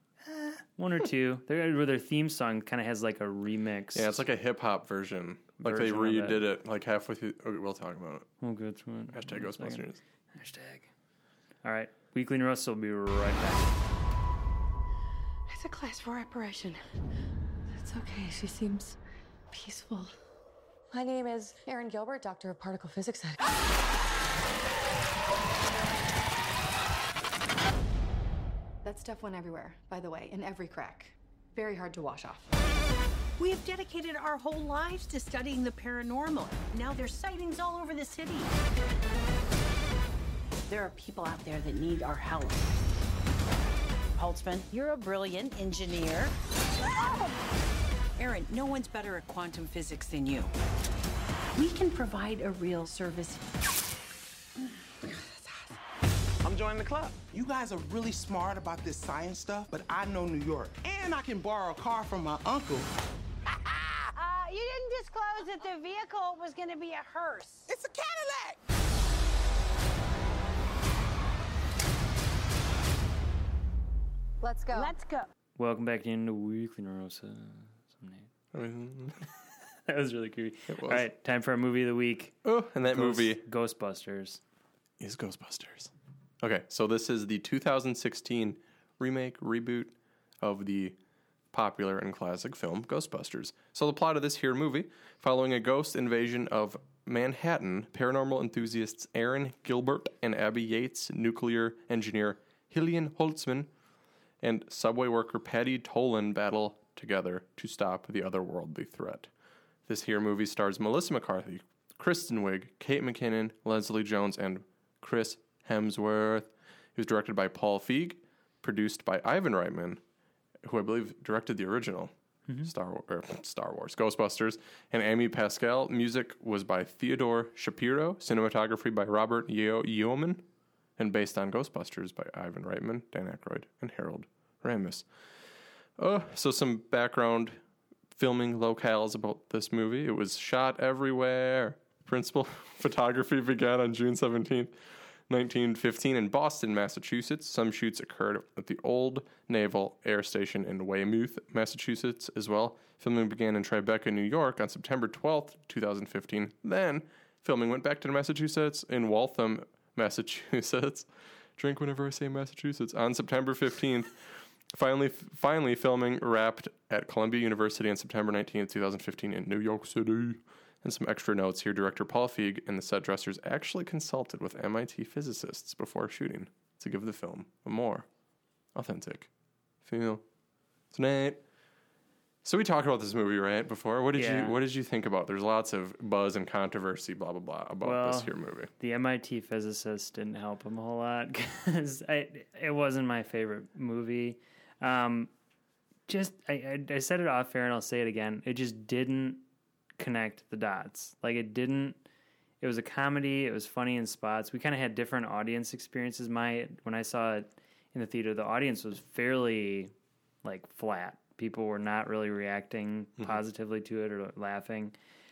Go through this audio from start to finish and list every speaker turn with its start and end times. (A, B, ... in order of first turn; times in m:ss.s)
0:00.2-0:04.2 A
0:03.9-0:08.3 B
0:05.6-0:06.4 A
0:08.4-0:10.9 A
0:09.1-0:10.0 B
0:11.6-0:13.8 A
0:15.5-0:16.8 C
0:17.7-0:19.0 C
0:19.5-0:20.2 C
0:20.9-0:23.6 C
0:28.8-0:32.5 C
0:33.4-0:38.5 D
0:40.7-0:42.6 D
0:44.2-0:46.3 D
0:46.8-0:47.4 D
0:48.2-0:50.5 D
0:51.5-0:53.4 D
0:56.4-1:02.9 E
1:04.0-1:07.7 D
1:07.7-1:08.6 E
1:14.4-1:14.9 C
1:14.7-1:15.3 D
1:15.6-1:18.3 A
1:18.5-1:19.3 B
1:19.9-1:24.4 A
1:20.7-1:21.0 B
1:22.4-1:23.4 B
1:25.0-1:31.0 B
1:31.5-1:43.7 B
1:44.4-1:49.3 B
1:49.9-2:00.0 B
2:00.6-2:02.1 B
2:02.6-2:10.4 B
2:11.0-2:15.1 B
2:16.0-2:17.6 B
2:18.2-2:24.8 B
2:25.3-2:58.1 B
2:58.8-2:59.3 B
2:59.8-3:00.2 B
3:00.9-3:01.4 B
3:02.4-3:08.7 B
3:04.2-3:04.6 A
3:07.8-3:15.3 A
3:16.1-3:19.4 A
3:20.0-3:22.0 A
3:22.6-3:29.9 A
3:30.4-3:35.0 A